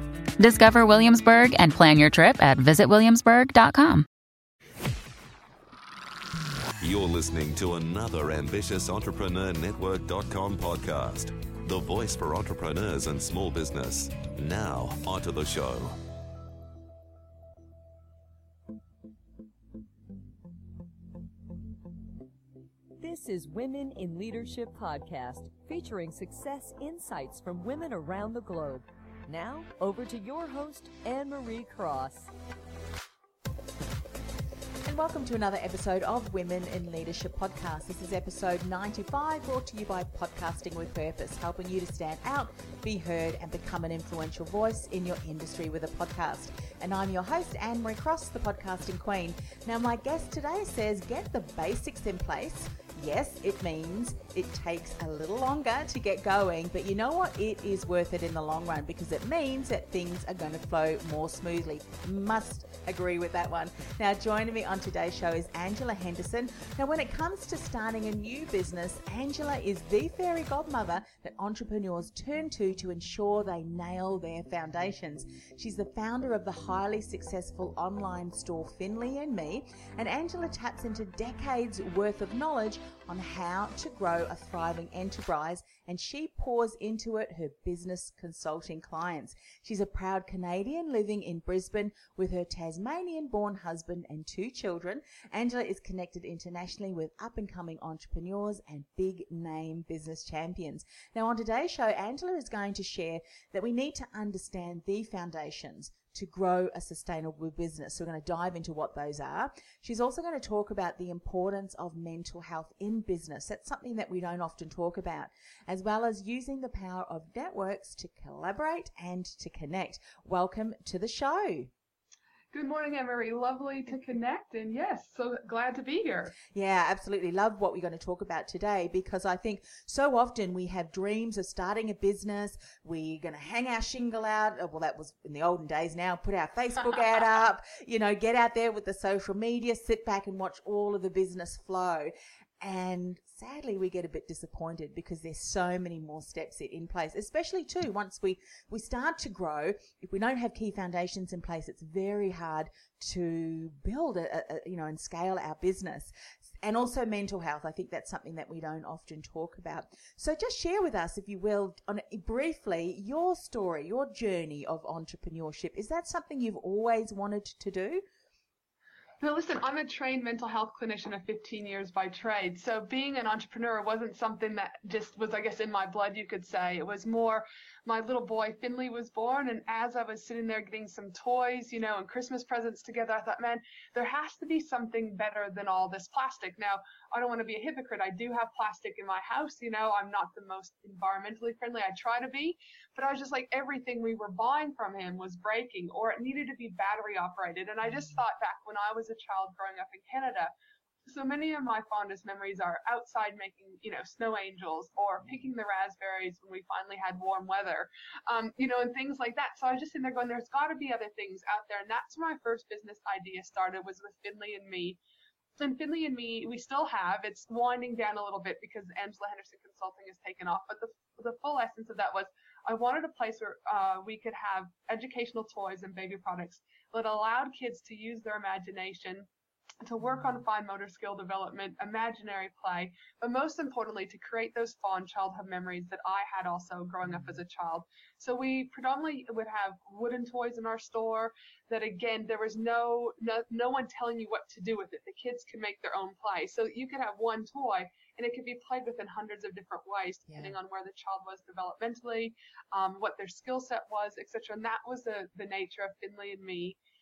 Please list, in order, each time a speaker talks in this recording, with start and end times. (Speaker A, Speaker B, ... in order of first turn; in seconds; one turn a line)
Speaker A: 0.4-4.0
Speaker B: 6.8-16.0
Speaker C: 23.0-32.3
Speaker D: 34.8-121.7
Speaker E: 122.5-126.3
Speaker D: 126.4-168.0
Speaker E: 169.2-200.5
Speaker D: 197.9-198.2
Speaker E: 201.1-215.0
Speaker E: 215.6-229.3
Speaker E: 229.8-256.8
Speaker D: 230.0-230.4
Speaker D: 237.0-237.4
Speaker D: 250.3-250.6